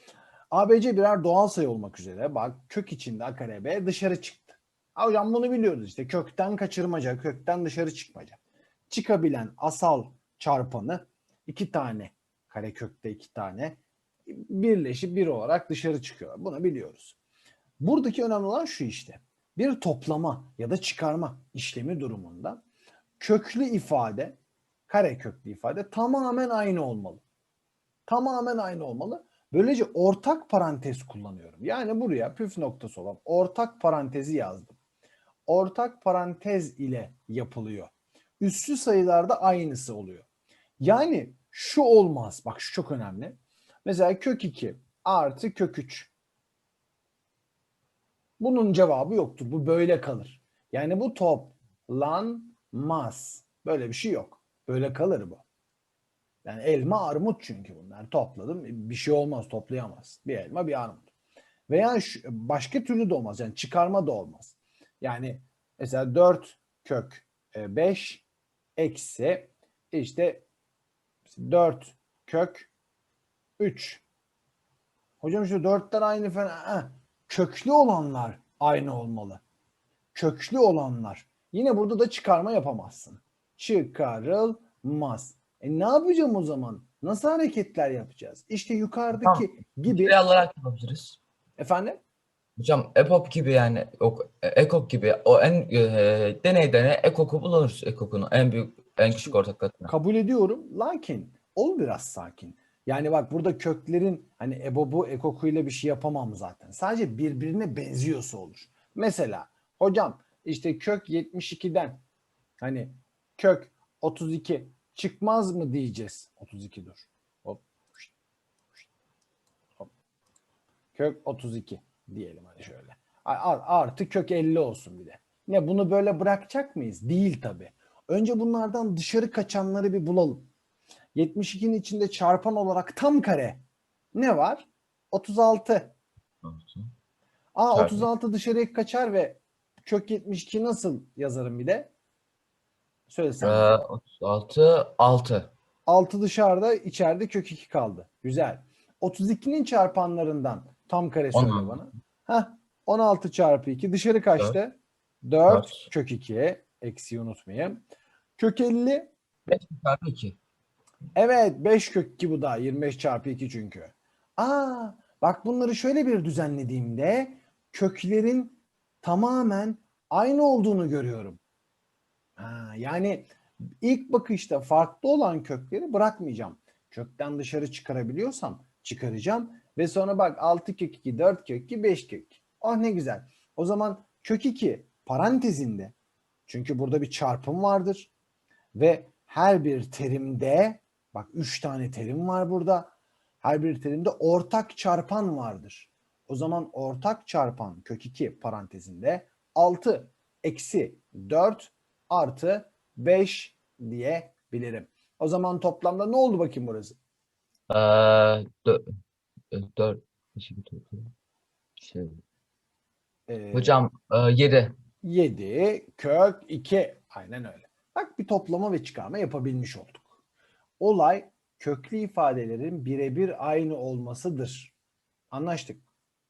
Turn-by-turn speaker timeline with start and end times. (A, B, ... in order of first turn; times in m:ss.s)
0:00.5-0:08.4 A
0:08.9-0:17.1 A
0:17.8-0:22.6 A
0:23.2-0:24.4 A
0:24.9-0:27.2 A
0:28.1-0:34.8 A
0:35.5-0:40.3 A
0:40.8-0:46.1 A
0:48.4-0:55.4 A
0:56.4-1:01.1 A
1:01.7-1:08.2 A
1:08.8-1:10.4 A
1:11.3-1:12.7 A
1:13.6-1:14.0 A
1:15.2-1:19.4 A
1:20.1-1:30.2 A
1:29.2-1:31.2 B
1:31.6-1:32.0 A
1:32.6-1:39.9 B
1:39.1-1:52.0 A
1:52.6-1:58.1 A
2:01.0-2:10.5 A
2:11.1-2:13.6 A
2:14.1-2:16.0 A
2:16.4-2:16.9 B
2:17.5-2:21.9 A
2:17.7-2:18.1 B
2:23.1-2:23.8 A
2:23.4-2:25.5 B
2:25.9-2:37.8 A
2:31.3-2:31.8 B
2:35.5-2:35.8 B
2:38.4-2:39.1 A
2:39.5-2:40.4 B
2:41.2-2:51.4 A
2:52.4-3:05.9 A
3:06.5-3:08.1 A
3:08.7-3:27.0 A
3:27.7-3:28.8 B
3:29.5-3:31.1 B
3:31.8-3:32.2 B
3:33.3-3:33.8 A
3:33.5-3:34.8 B
3:35.0-3:40.1 A
3:40.8-3:44.7 A
3:45.3-3:45.8 A